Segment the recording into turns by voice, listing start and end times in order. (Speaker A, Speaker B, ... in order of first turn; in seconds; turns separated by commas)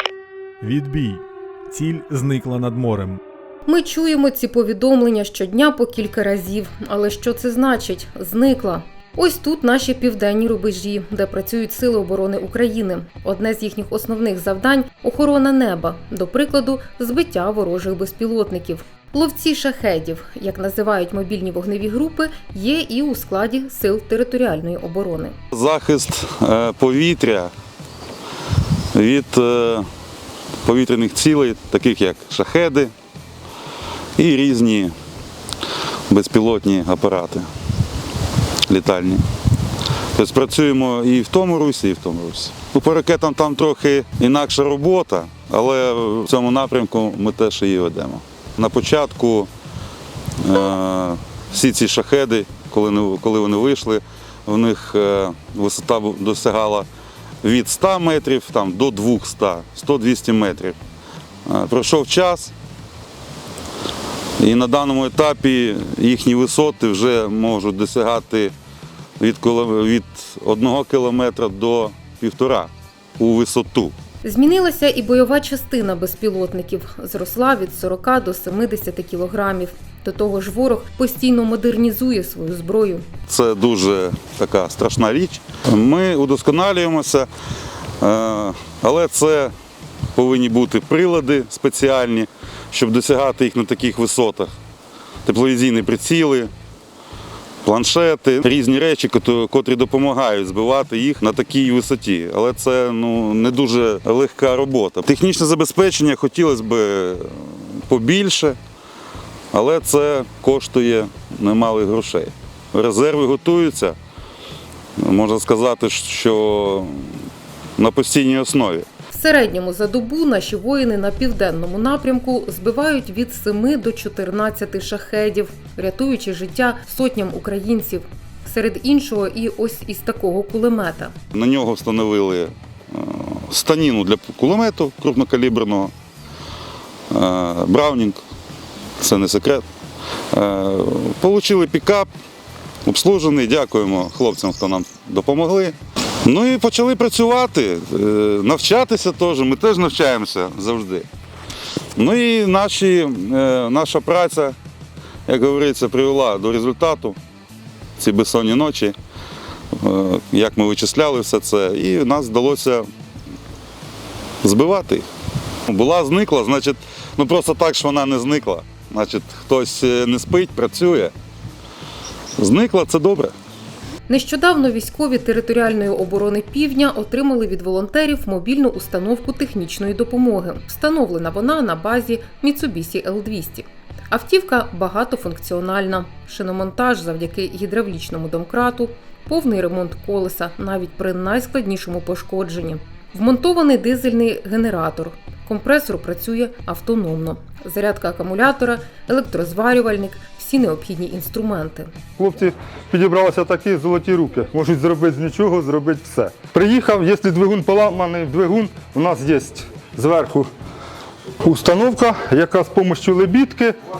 Speaker A: 0.6-3.2, Speaker B: 3.7-25.4, Speaker C: 25.5-27.5, Speaker C: 28.9-29.9, Speaker C: 30.6-32.9, Speaker C: 34.2-34.9, Speaker C: 36.1-37.5, Speaker C: 38.7-39.2, Speaker C: 40.1-49.5, Speaker C: 50.4-56.9, Speaker C: 57.4-60.8, Speaker C: 61.5-62.5, Speaker C: 64.4-68.5, Speaker C: 69.2-73.9, Speaker B: 74.2-83.1, Speaker C: 83.3-87.3, Speaker C: 88.0-89.5, Speaker C: 90.1-94.5, Speaker C: 95.2-96.5, Speaker C: 97.6-108.6, Speaker C: 109.5-114.0, Speaker C: 115.0-117.2, Speaker C: 117.8-118.9, Speaker B: 119.1-131.2, Speaker C: 131.3-135.9, Speaker C: 137.1-138.2, Speaker C: 139.0-139.7, Speaker C: 140.3-142.1, Speaker C: 142.8-151.1, Speaker C: 151.9-154.6, Speaker C: 155.3-157.2, Speaker C: 158.0-158.9, Speaker C: 159.8-162.9, Speaker C: 164.4-165.1, Speaker C: 165.7-171.1, Speaker C: 172.4-173.3, Speaker B: 174.1-201.9, Speaker D: 202.2-210.5, Speaker D: 211.4-213.7